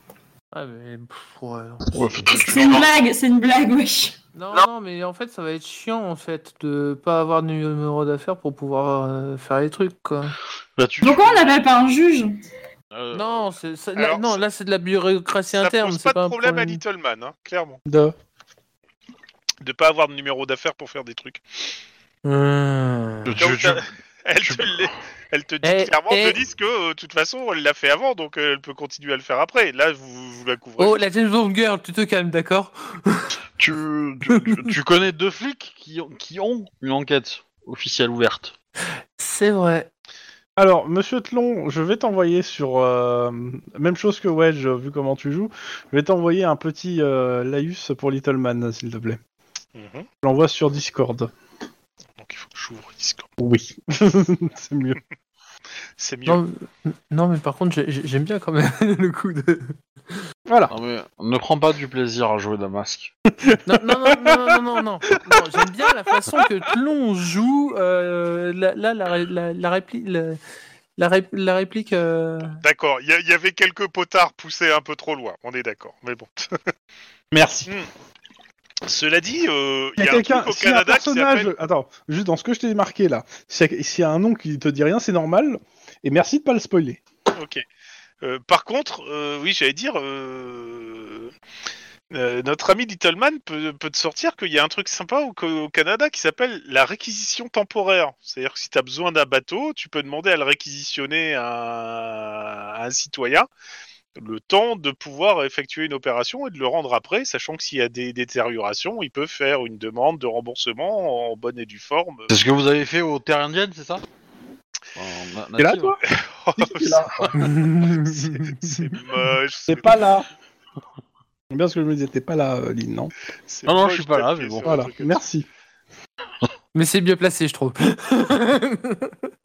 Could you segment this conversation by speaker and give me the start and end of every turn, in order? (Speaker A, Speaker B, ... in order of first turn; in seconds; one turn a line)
Speaker A: 0.5-2.4
Speaker B: 1.9-2.9
Speaker C: 2.3-4.2
Speaker A: 4.3-10.4
Speaker B: 10.8-11.5
Speaker C: 11.0-12.3
Speaker B: 12.9-13.5
Speaker A: 13.1-16.8
Speaker D: 14.0-14.4
Speaker D: 15.5-17.8
Speaker E: 17.9-18.1
Speaker D: 19.6-21.4
Speaker A: 22.2-23.4
Speaker B: 23.2-23.9
Speaker D: 23.4-31.0
Speaker B: 24.4-24.8
Speaker A: 25.6-26.4
Speaker A: 30.8-33.4
Speaker B: 33.6-38.5
Speaker A: 34.3-34.7
Speaker A: 39.2-39.9
Speaker E: 40.6-49.2
Speaker D: 49.8-50.1
Speaker E: 50.2-51.3
Speaker D: 52.2-53.3
Speaker E: 53.4-55.0
Speaker D: 56.0-56.4
Speaker A: 56.3-60.2
Speaker E: 60.5-60.7
Speaker B: 60.7-63.1
Speaker E: 63.3-64.5
Speaker A: 63.7-70.4
Speaker E: 65.3-65.6
Speaker A: 71.0-72.6
Speaker D: 72.6-76.6
Speaker E: 77.3-77.7
Speaker D: 78.8-81.5
Speaker E: 80.0-87.0
Speaker D: 87.3-87.6
Speaker D: 88.2-91.3
Speaker D: 92.1-103.5
Speaker D: 104.2-112.3
Speaker B: 112.3-114.0
Speaker B: 115.0-116.0
Speaker E: 115.6-116.0
Speaker D: 116.0-117.3
Speaker E: 116.5-117.3
Speaker A: 117.3-118.8
Speaker D: 117.9-120.1
Speaker E: 119.7-120.3
Speaker E: 121.5-123.1
Speaker D: 123.5-125.2
Speaker B: 123.7-124.8
Speaker E: 124.7-125.5
Speaker A: 126.7-129.3